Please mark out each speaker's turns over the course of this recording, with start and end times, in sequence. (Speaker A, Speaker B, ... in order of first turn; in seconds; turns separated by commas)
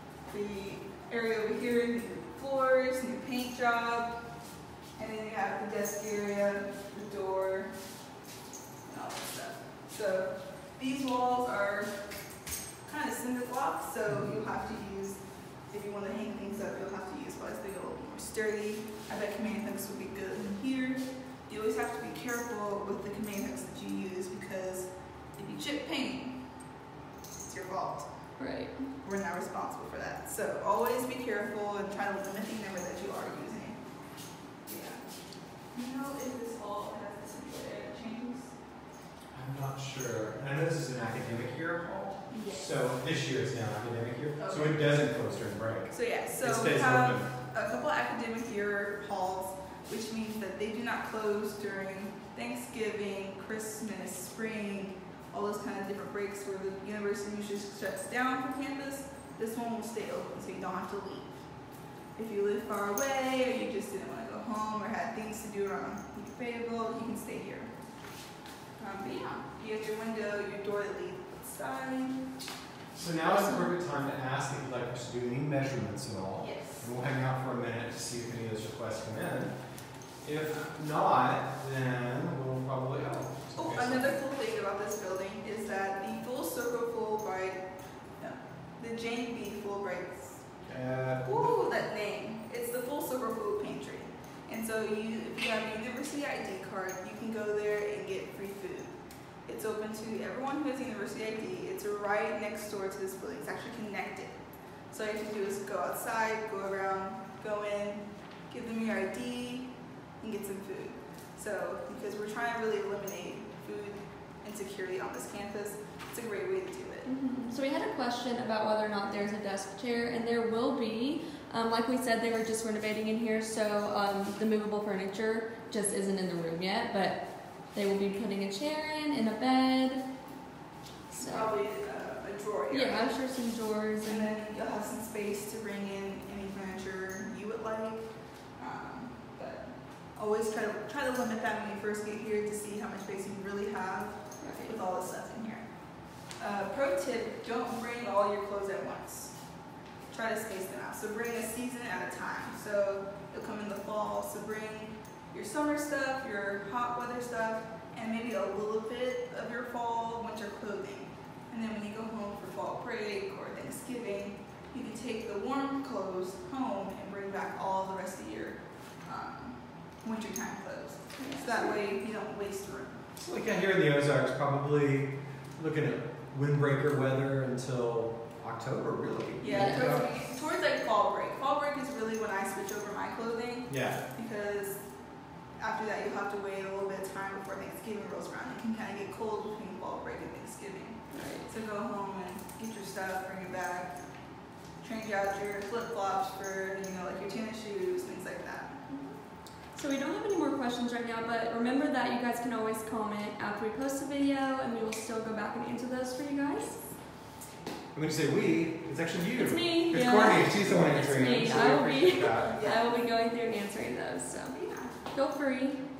Speaker A: 0.3-4.2, Speaker A: 5.0-7.7, Speaker A: 8.9-12.1, Speaker A: 12.8-26.5, Speaker A: 27.4-28.1, Speaker B: 28.4-28.9, Speaker A: 29.0-33.8, Speaker A: 34.7-35.0, Speaker A: 35.7-38.6, Speaker C: 39.3-47.3, Speaker A: 42.3-42.6, Speaker A: 44.4-44.8, Speaker A: 45.9-61.4, Speaker A: 62.2-67.7, Speaker A: 68.8-72.3, Speaker C: 72.9-79.6, Speaker A: 76.4-76.9, Speaker C: 80.2-84.1, Speaker A: 83.5-90.4, Speaker C: 90.6-91.6, Speaker A: 91.2-104.4, Speaker A: 104.9-117.1, Speaker B: 117.1-130.1, Speaker B: 131.1-131.5, Speaker A: 131.2-133.2, Speaker B: 132.7-134.3, Speaker A: 134.1-138.1, Speaker A: 138.6-145.7, Speaker B: 144.4-144.8, Speaker A: 146.3-149.5, Speaker A: 150.1-173.0, Speaker B: 171.2-171.8, Speaker C: 173.2-180.1, Speaker A: 179.4-184.8, Speaker B: 179.5-180.0, Speaker C: 183.7-184.0, Speaker A: 185.6-194.0, Speaker B: 191.1-191.5, Speaker A: 194.8-198.9, Speaker B: 198.9-199.2, Speaker B: 199.7-206.8, Speaker C: 207.9-212.6, Speaker B: 209.4-214.6, Speaker A: 212.5-213.0, Speaker A: 214.5-214.9, Speaker B: 215.1-215.8